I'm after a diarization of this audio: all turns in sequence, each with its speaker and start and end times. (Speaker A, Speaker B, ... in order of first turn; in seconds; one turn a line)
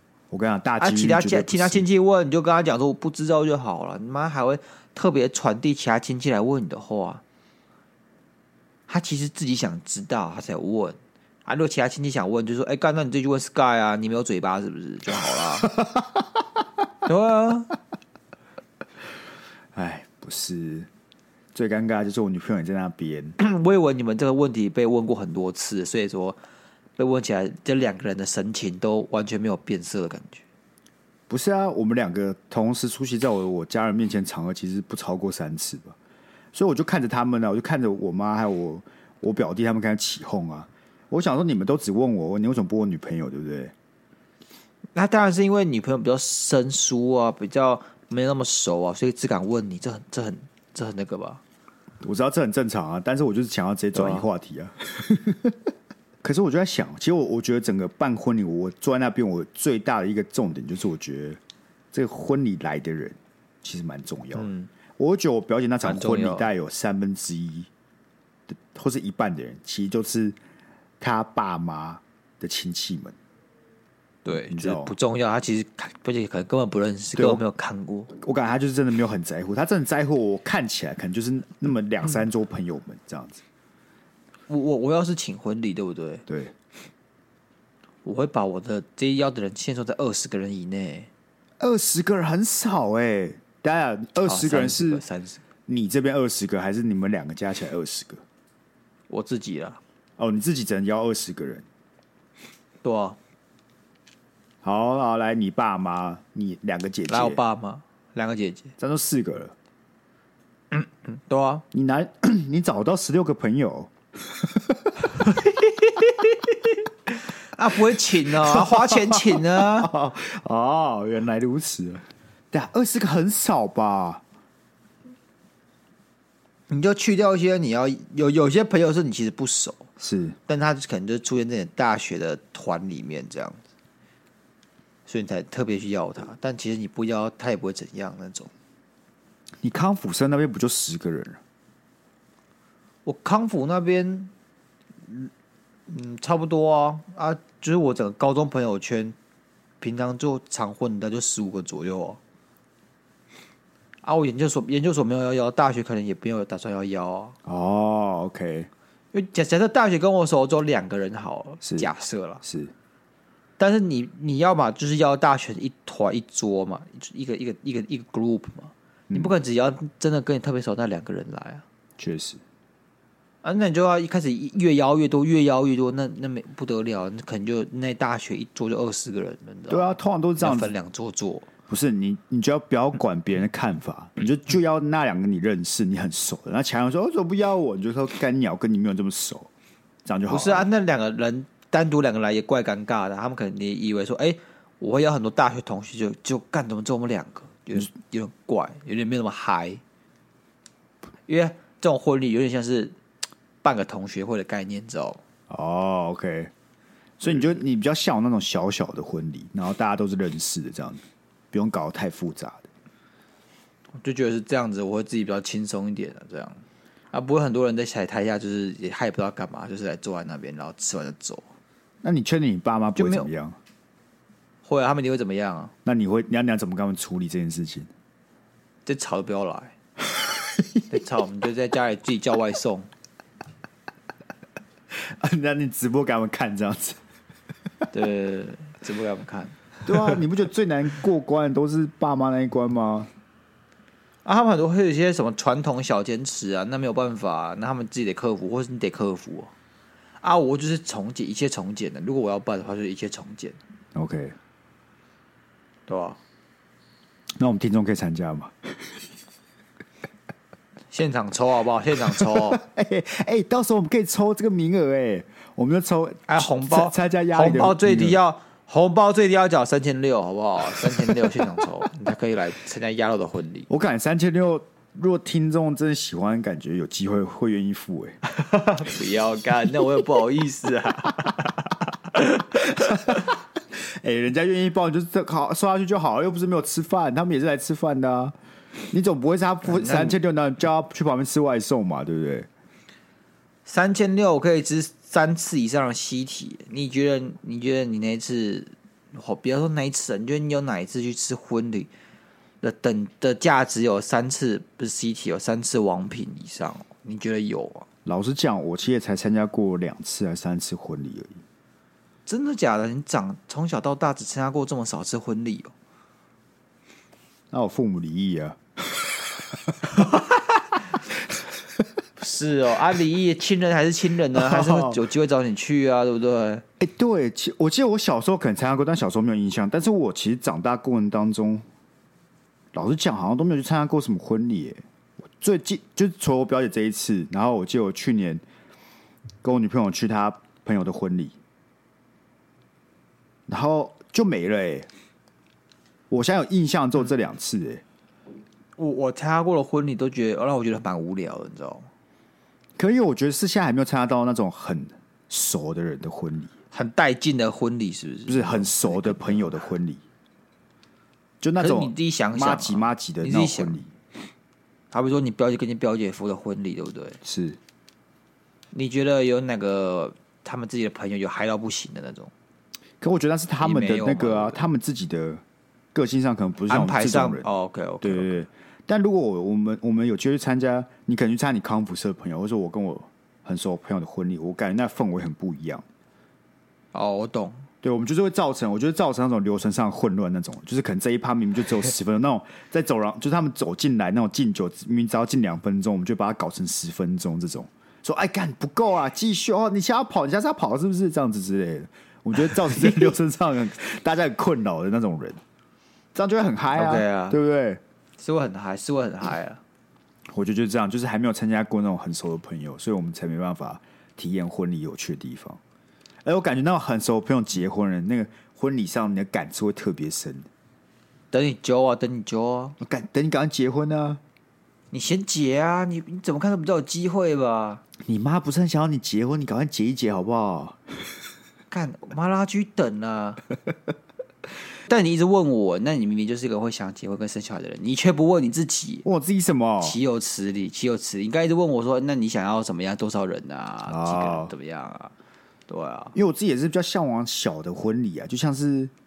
Speaker A: 0.3-1.9
Speaker B: 0.8-7.2
Speaker B: 8.9-15.7
Speaker B: 17.1-17.7
Speaker A: 19.7-20.9
Speaker A: 21.5-23.4
Speaker B: 23.4-26.4
Speaker B: 27.0-30.4
Speaker A: 31.3-36.0
Speaker A: 36.5-43.7
Speaker B: 45.0-51.4
Speaker A: 52.0-55.6
Speaker B: 53.9-54.3
Speaker A: 56.2-61.4
Speaker A: 61.9-67.7
Speaker B: 64.3-64.7
Speaker B: 65.8-66.5
Speaker A: 68.7-70.4
Speaker A: 71.0-73.2
Speaker B: 74.2-78.1
Speaker A: 74.4-74.9
Speaker A: 77.2-77.4
Speaker A: 78.1-83.4
Speaker B: 84.5-86.2
Speaker A: 86.3-86.5
Speaker B: 88.0-91.1
Speaker A: 91.6-95.0
Speaker B: 94.2-95.4
Speaker A: 95.7-98.2
Speaker B: 99.1-99.8
Speaker A: 100.2-101.7
Speaker B: 102.8-103.2
Speaker A: 104.6-107.4
Speaker B: 107.1-108.7
Speaker A: 108.8-109.5
Speaker B: 110.7-111.6
Speaker A: 111.7-115.2
Speaker B: 115.4-116.5
Speaker B: 117.5-119.9
Speaker A: 118.3-124.2
Speaker B: 126.7-129.9
Speaker A: 130.0-130.4
Speaker B: 130.5-133.6
Speaker B: 135.1-138.5
Speaker A: 139.6-141.4
Speaker B: 143.1-144.3
Speaker B: 145.9-149.2
Speaker B: 149.8-152.2
Speaker B: 154.0-157.4
Speaker A: 157.5-158.7
Speaker B: 159.1-162.4
Speaker A: 161.6-161.9
Speaker A: 162.4-162.7
Speaker B: 163.6-171.6
Speaker A: 172.0-172.4
Speaker B: 173.4-181.5
Speaker A: 179.7-180.7
Speaker A: 181.7-189.5
Speaker A: 190.1-190.7
Speaker B: 190.3-199.8
Speaker B: 201.3-202.9
Speaker B: 203.6-205.2
Speaker A: 205.5-206.5
Speaker A: 207.2-212.7
Speaker B: 214.0-221.5
Speaker A: 222.0-223.6
Speaker B: 222.9-223.3
Speaker B: 224.7-225.7
Speaker A: 225.8-227.9
Speaker B: 228.9-229.7
Speaker A: 230.5-230.8
Speaker B: 230.9-232.9
Speaker A: 234.9-237.0
Speaker B: 237.9-240.2
Speaker A: 239.8-243.1
Speaker B: 244.2-249.5
Speaker B: 250.2-253.6
Speaker A: 253.9-254.4
Speaker B: 255.9-256.2
Speaker A: 257.4-258.8
Speaker B: 260.9-262.6
Speaker A: 262.1-268.2
Speaker B: 266.3-273.7
Speaker A: 270.9-271.2
Speaker A: 273.7-278.2
Speaker B: 278.3-283.0
Speaker A: 282.6-288.4
Speaker A: 288.9-292.5
Speaker B: 289.6-290.2
Speaker B: 293.7-301.9
Speaker B: 302.6-307.9
Speaker A: 308.1-311.4
Speaker B: 312.3-315.7
Speaker A: 317.5-320.0
Speaker B: 322.2-326.6
Speaker A: 324.3-325.0
Speaker A: 326.8-331.6
Speaker A: 332.7-338.4
Speaker A: 339.4-341.4
Speaker A: 343.5-344.9
Speaker A: 346.1-347.8
Speaker B: 348.8-351.9
Speaker A: 352.8-356.5
Speaker B: 356.7-359.6
Speaker A: 358.3-360.0
Speaker A: 361.4-363.9
Speaker B: 361.6-363.8
Speaker B: 364.9-367.2
Speaker A: 367.2-367.6
Speaker B: 368.7-372.3
Speaker A: 373.0-375.4
Speaker B: 373.6-374.6
Speaker A: 375.9-377.5
Speaker B: 376.7-378.4
Speaker A: 378.0-385.8
Speaker B: 386.9-387.6
Speaker A: 387.8-405.4
Speaker B: 402.5-403.1
Speaker A: 406.1-407.8
Speaker B: 406.7-407.4
Speaker B: 408.2-409.6
Speaker A: 410.3-415.6
Speaker A: 416.2-420.5
Speaker B: 421.3-422.8
Speaker A: 422.8-424.2
Speaker B: 424.9-427.8
Speaker A: 428.0-430.8
Speaker B: 431.7-433.4
Speaker B: 434.9-439.1
Speaker A: 439.1-440.0
Speaker B: 439.8-445.1
Speaker A: 443.9-444.5
Speaker B: 445.7-446.1
Speaker A: 446.1-448.9